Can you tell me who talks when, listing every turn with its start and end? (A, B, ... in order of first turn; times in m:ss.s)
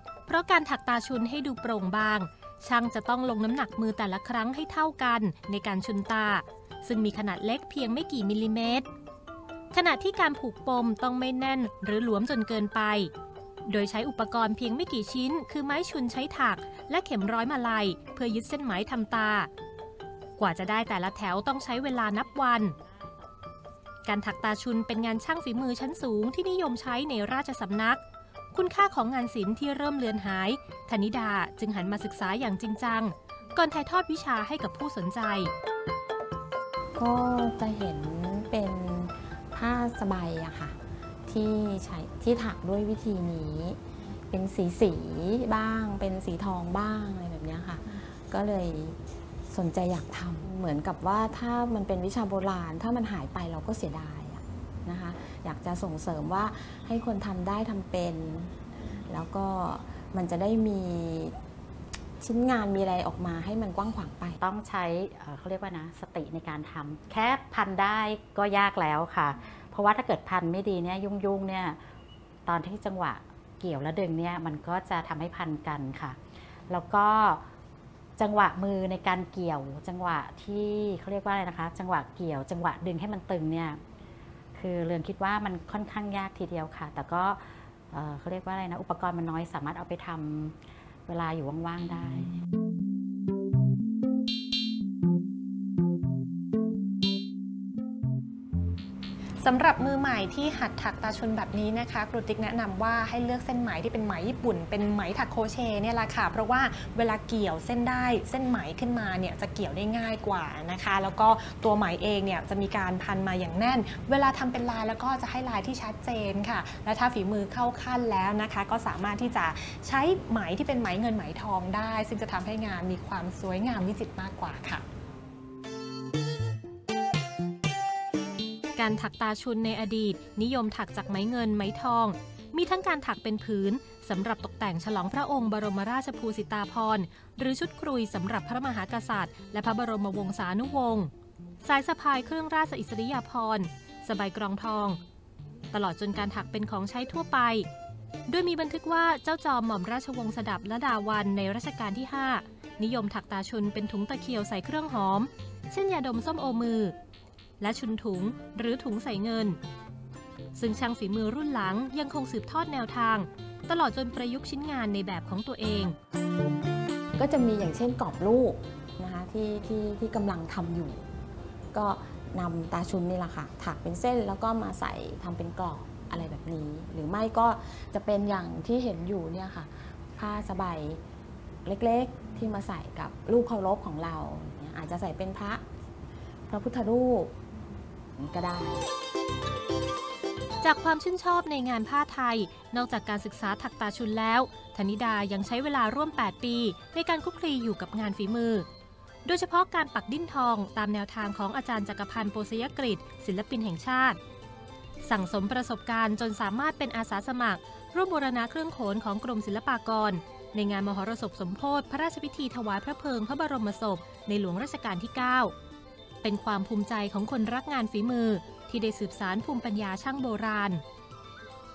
0:00.3-0:08.9 A
0:09.7-0:13.1 A
0:13.7-0:19.5 A
0:20.4-0:22.8 A
0:22.8-0:23.2 B
0:24.0-0:28.0 A
0:28.5-0:35.5 A
0:37.0-0:43.8 C
0:44.3-0:49.0 C
0:49.5-0:58.5 C
0:59.1-1:01.3 C
1:02.2-1:04.4 C
1:04.4-1:11.8 B
1:12.4-1:16.2 B
1:16.7-1:17.4 B
1:18.2-1:23.8 B
1:24.6-1:30.6 B
1:31.1-1:32.3 B
1:39.4-2:04.8 D
2:08.8-2:21.1 A
2:21.6-2:25.0 A
2:25.7-2:27.7 A
2:28.3-2:36.9 A
2:37.6-2:39.6 A
2:40.6-2:46.0 A
2:47.2-2:51.1 C
2:51.7-3:01.0 C
3:01.6-3:05.6 C
3:06.5-3:07.3 C
3:08.2-3:08.8 C
3:10.6-3:18.7 A
3:19.2-3:24.2 A
3:25.0-3:35.5 A
3:36.2-3:40.8 A